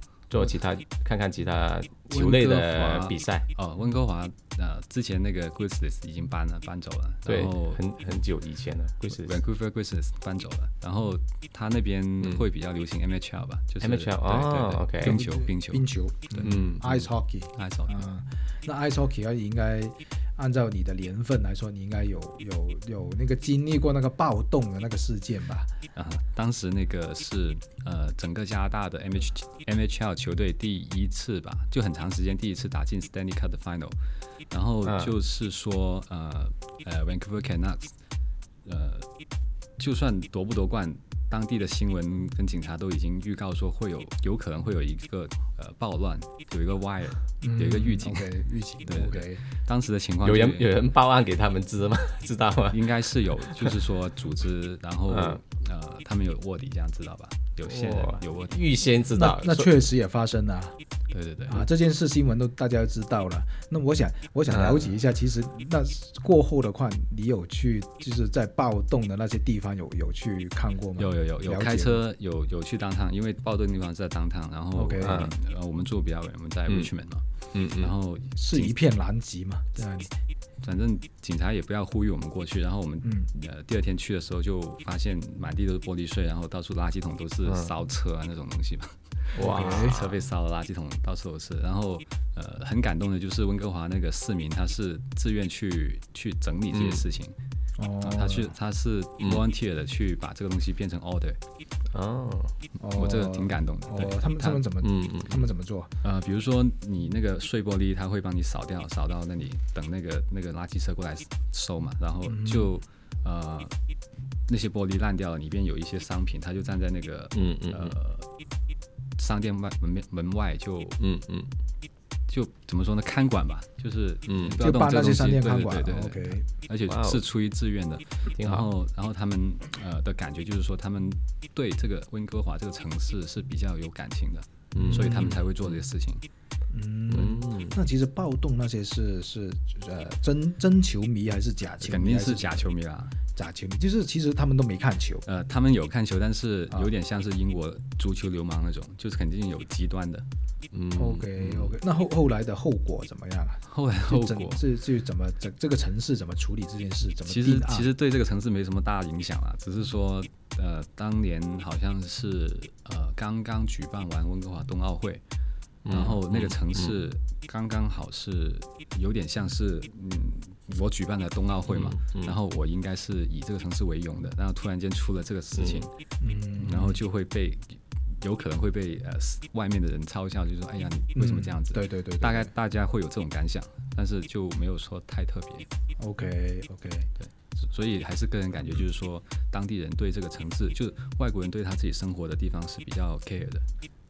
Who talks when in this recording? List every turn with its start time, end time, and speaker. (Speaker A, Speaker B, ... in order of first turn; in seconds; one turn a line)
Speaker A: 0.3-3.5
Speaker B: 2.1-7.8
Speaker A: 7.2-9.4
Speaker B: 9.1-18.0
Speaker A: 13.8-15.2
Speaker C: 15.0-25.7
Speaker A: 16.4-16.8
Speaker B: 25.9-34.0
Speaker B: 34.5-37.9
Speaker A: 34.8-35.1
Speaker B: 38.6-39.1
Speaker B: 39.8-48.3
Speaker C: 47.4-49.4
Speaker B: 48.9-50.7
Speaker A: 50.2-52.8
Speaker B: 52.7-58.6
Speaker A: 55.1-55.4
Speaker A: 57.6-59.7
Speaker C: 59.1-60.8
Speaker B: 61.1-61.6
Speaker C: 61.5-72.0
Speaker A: 64.5-64.9
Speaker B: 71.0-78.7
Speaker C: 74.7-75.3
Speaker A: 75.0-75.3
Speaker A: 77.5-77.9
Speaker C: 78.3-80.1
Speaker B: 80.6-97.3
Speaker C: 83.0-83.3
Speaker A: 89.3-90.0
Speaker C: 89.4-90.1
Speaker A: 96.7-97.0
Speaker C: 97.8-98.5
Speaker B: 98.0-101.4
Speaker A: 101.9-102.5
Speaker C: 102.8-105.9
Speaker B: 102.9-104.6
Speaker A: 104.8-105.3
Speaker B: 106.0-113.8
Speaker C: 112.2-112.7
Speaker B: 114.5-118.3
Speaker A: 117.3-117.9
Speaker B: 119.2-121.0
Speaker A: 121.0-121.5
Speaker B: 122.3-136.2
Speaker A: 124.3-124.6
Speaker C: 124.6-126.4
Speaker A: 126.9-127.2
Speaker A: 128.2-128.7
Speaker A: 134.7-135.8
Speaker C: 134.8-135.4
Speaker C: 136.7-142.7
Speaker A: 137.1-137.8
Speaker B: 141.8-143.2
Speaker C: 143.3-145.2
Speaker B: 145.2-150.2
Speaker A: 150.7-151.7
Speaker C: 150.9-157.9
Speaker B: 153.7-154.6
Speaker B: 157.2-165.2
Speaker A: 165.8-166.9
Speaker B: 165.9-175.9
Speaker A: 171.7-172.3
Speaker A: 175.5-175.8
Speaker C: 176.2-177.0
Speaker B: 176.6-185.7
Speaker C: 181.1-182.5
Speaker C: 186.0-187.1
Speaker B: 187.2-193.7